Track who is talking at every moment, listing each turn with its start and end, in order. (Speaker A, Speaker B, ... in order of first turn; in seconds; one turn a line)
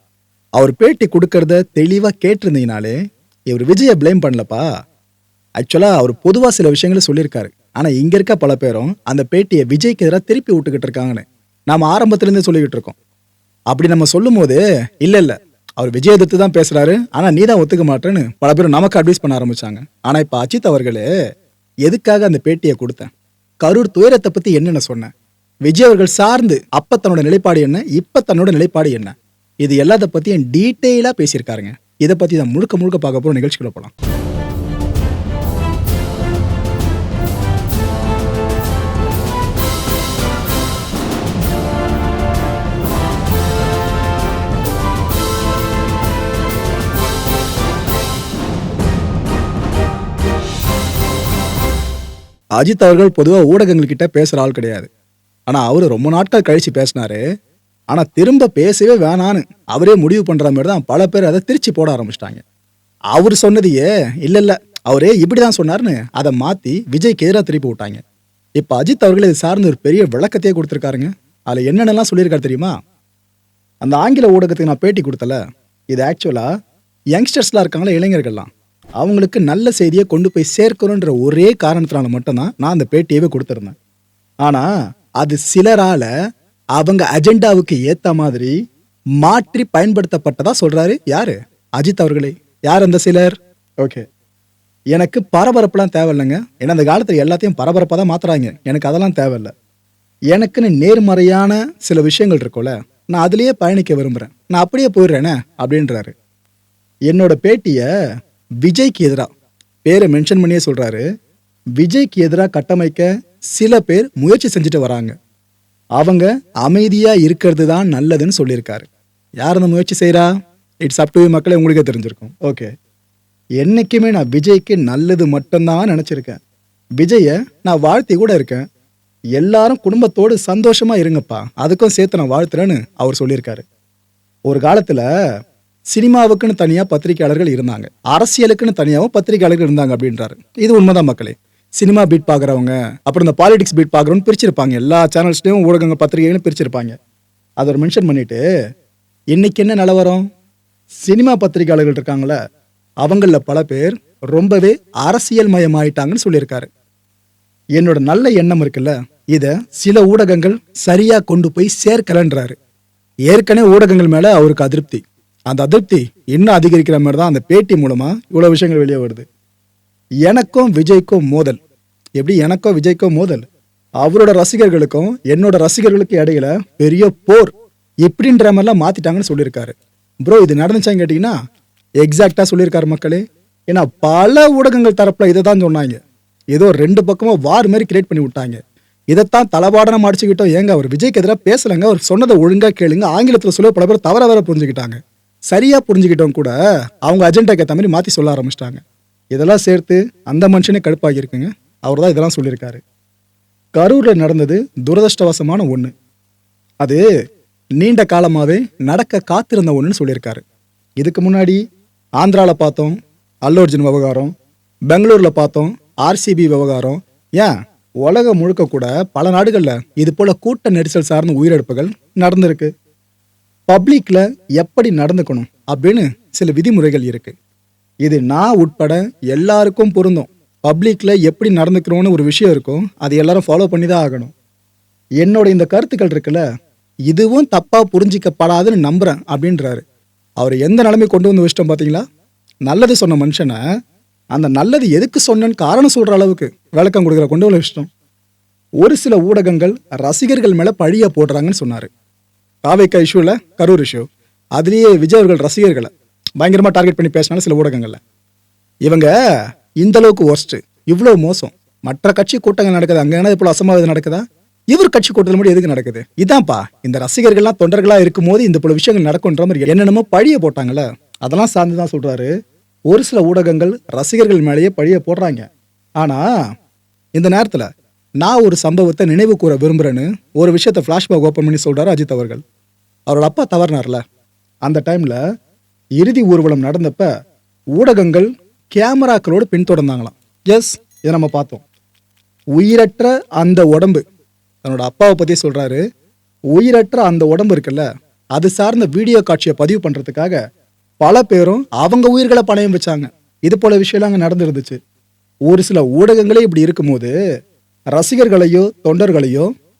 Speaker A: 0.6-3.0
Speaker A: 3.5-4.6
Speaker A: 5.6-12.9
Speaker A: 13.7-21.0
Speaker A: 21.9-23.1
Speaker A: 23.6-25.1
Speaker A: 25.6-33.9
Speaker A: 52.6-54.9
Speaker A: 55.5-57.2
Speaker A: 57.9-62.4
Speaker A: 63.1-68.0
Speaker A: 68.6-72.7
Speaker A: 73.8-75.4
Speaker A: 75.9-76.5
Speaker A: 77.2-83.7
Speaker A: 85.2-86.1
Speaker A: 86.8-88.5
Speaker A: 89.2-94.0
Speaker A: 94.9-99.5
Speaker A: 100.3-106.1
Speaker A: 107.1-107.8
Speaker A: 108.6-109.3
Speaker A: 109.8-111.0
Speaker A: 111.8-115.1
Speaker A: 116.0-118.9
Speaker A: 119.4-120.3
Speaker A: 120.8-122.7
Speaker A: 123.6-126.4
Speaker A: 127.0-128.6
Speaker A: 129.4-133.6
Speaker A: 134.5-135.0
Speaker A: 135.9-146.9
Speaker A: 147.6-148.4
Speaker A: 149.3-150.2
Speaker A: 151.0-152.4
Speaker A: 153.0-156.7
Speaker A: 157.8-162.6
Speaker A: 163.3-169.2
Speaker A: 170.3-171.6
Speaker A: 172.2-173.4
Speaker A: 174.0-177.5
Speaker A: 178.0-179.7
Speaker A: 180.2-181.3
Speaker A: 182.0-186.0
Speaker A: 186.5-195.0
Speaker A: 195.5-196.5
Speaker A: 197.1-198.8
Speaker A: 199.3-202.8
Speaker A: 203.8-205.9
Speaker A: 207.8-210.4
Speaker A: 211.0-211.6
Speaker A: 212.2-212.9
Speaker A: 213.5-214.3
Speaker A: 214.9-217.5
Speaker A: 218.0-222.7
Speaker A: 223.7-227.3
Speaker A: 228.0-234.3
Speaker A: 235.2-236.4
Speaker A: 237.1-239.8
Speaker A: 240.4-242.0
Speaker A: 242.7-243.6
Speaker A: 244.3-247.9
Speaker A: 248.8-251.9
Speaker A: 252.7-254.1
Speaker A: 254.6-258.0
Speaker A: 259.8-272.3
Speaker A: 272.9-275.4
Speaker A: 277.2-277.7
Speaker A: 278.2-282.4
Speaker A: 283.1-284.0
Speaker A: 284.6-285.2
Speaker A: 286.0-287.1
Speaker A: 287.8-291.6
Speaker A: 292.6-294.0
Speaker A: 294.6-295.8
Speaker A: 296.5-297.8
Speaker A: 298.4-300.4
Speaker A: 301.0-304.8
Speaker A: 305.5-307.1
Speaker A: 307.9-309.5